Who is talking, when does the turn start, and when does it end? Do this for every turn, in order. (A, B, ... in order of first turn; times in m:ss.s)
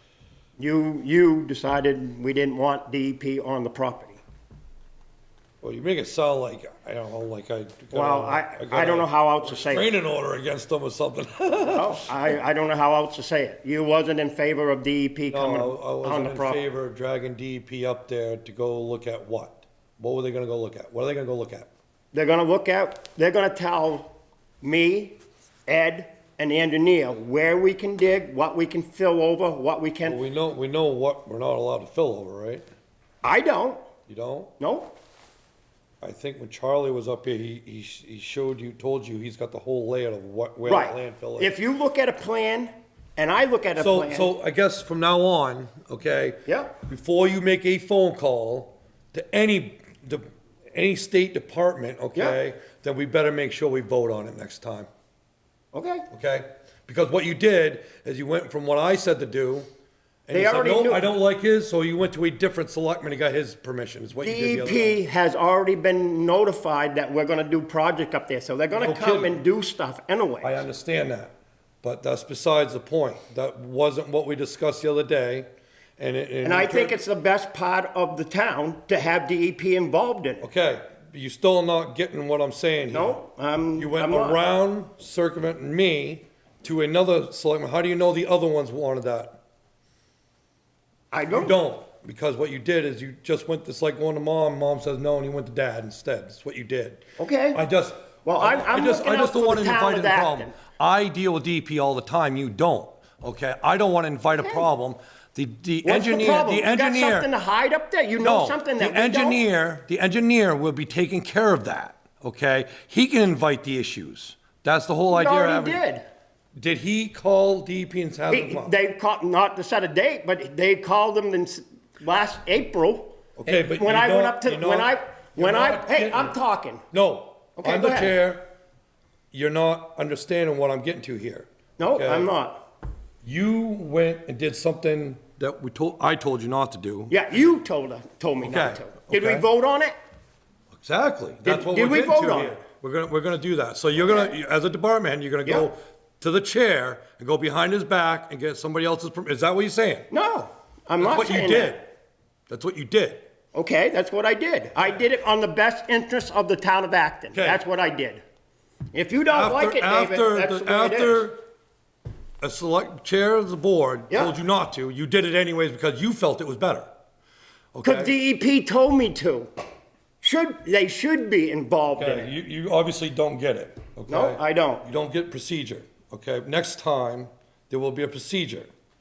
0:00.6-0:04.2 A
0:05.6-0:12.1 B
0:07.9-0:09.9 A
0:11.7-0:16.6 A
0:15.3-0:21.7 B
0:22.1-0:30.2 A
0:30.0-0:32.6 B
0:33.2-0:33.8 A
0:34.1-0:34.5 B
0:34.6-0:34.9 A
0:36.0-0:41.6 B
0:40.6-0:44.3 A
0:43.8-0:54.9 B
0:46.4-0:46.7 A
0:55.7-0:56.0 A
0:56.1-0:59.7 B
1:00.3-1:05.0 B
1:00.3-1:01.1 A
1:04.2-1:10.6 A
1:08.7-1:09.4 B
1:10.4-1:15.5 B
1:16.0-1:17.0 B
1:16.4-1:20.4 A
1:20.4-1:23.2 B
1:22.9-1:24.4 A
1:23.8-1:29.4 B
1:31.1-1:31.5 A
1:31.3-1:37.0 B
1:37.2-1:37.6 A
1:37.5-1:47.3 B
1:38.2-1:40.6 A
1:44.4-1:44.6 A
1:45.8-1:49.4 A
1:48.2-1:55.8 B
1:55.1-1:56.0 A
1:56.6-1:58.7 B
1:58.3-2:06.8 A
2:03.4-2:06.4 B
2:06.9-2:08.4 B
2:07.6-2:08.2 A
2:09.3-2:12.3 B
2:11.8-2:12.6 A
2:13.2-2:17.2 B
2:17.1-2:20.0 A
2:18.4-2:19.4 B
2:20.7-2:30.1 B
2:21.4-2:22.6 A
2:24.0-2:24.3 A
2:30.1-2:31.8 A
2:31.0-2:31.8 B
2:32.5-2:33.2 B
2:33.5-2:38.2 A
2:37.3-2:37.6 B
2:38.9-2:41.3 A
2:39.3-2:41.4 B
2:42.4-2:46.9 B
2:47.7-2:48.1 B
2:47.8-2:49.5 A
2:50.2-2:52.3 A
2:52.0-2:58.7 B
2:54.1-2:54.8 A